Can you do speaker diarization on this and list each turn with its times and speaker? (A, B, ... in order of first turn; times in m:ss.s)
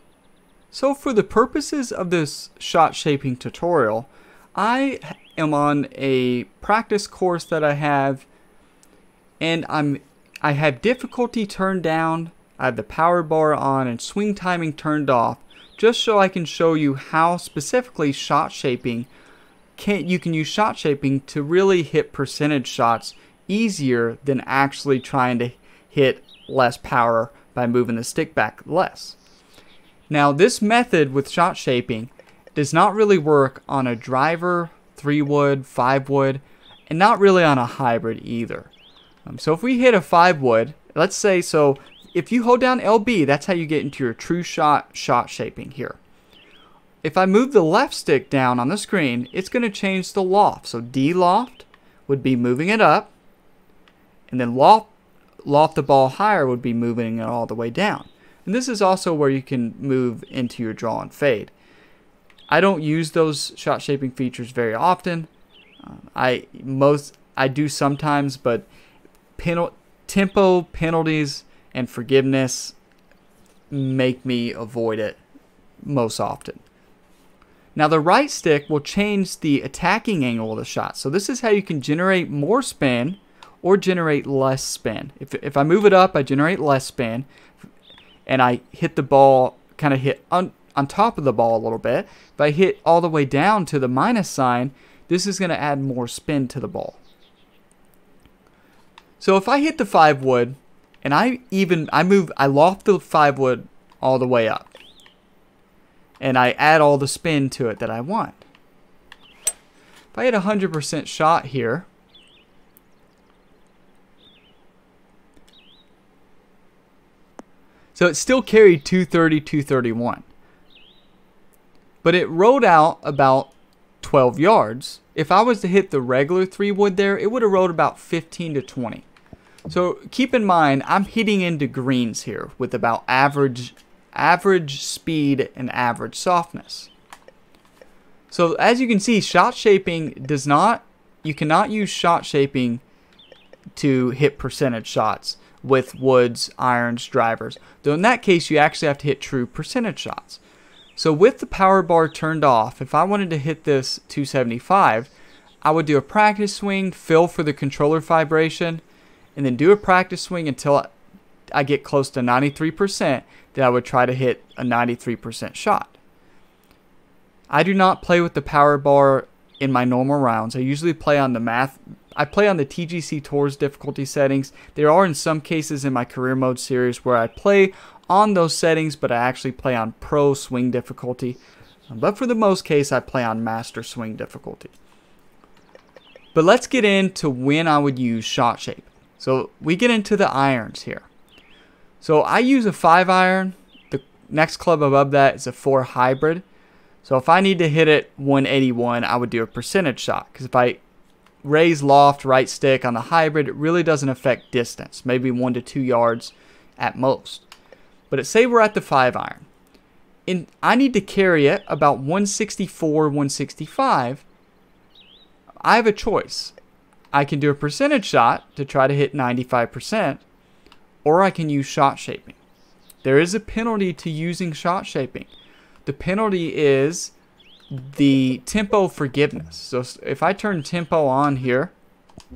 0:00.7-0:08.2 A
0:09.4-0:19.1 A
0:19.8-0:29.2 A
0:30.1-0:38.7 A
0:39.2-0:46.0 A
0:47.0-0:53.1 A
0:54.3-0:54.9 A
0:55.4-1:01.5 A
1:02.5-1:05.3 A
1:05.8-1:08.7 A
1:09.4-1:12.8 A
1:13.7-1:15.2 A
1:15.8-1:16.6 A
1:17.7-1:27.3 A
1:28.2-1:37.0 A
1:39.2-1:44.7 A
1:46.2-1:48.4 A
1:50.1-1:51.9 A
1:57.9-2:00.2 A
2:02.0-2:09.0 A
2:09.7-2:16.9 A
2:18.3-2:22.8 A
2:23.7-2:30.4 A
2:31.0-2:35.1 A
2:35.6-2:38.8 A
2:39.3-2:40.9 A
2:41.5-2:46.0 A
2:47.5-3:04.7 A
3:06.3-3:11.1 A
3:12.0-3:16.4 A
3:17.0-3:20.8 A
3:21.4-3:27.4 A
3:28.1-3:29.4 A
3:30.3-3:34.2 A
3:35.6-3:36.5 A
3:37.1-3:40.2 A
3:41.0-3:42.4 A
3:43.0-3:45.3 A
3:45.8-3:47.1 A
3:47.7-3:51.7 A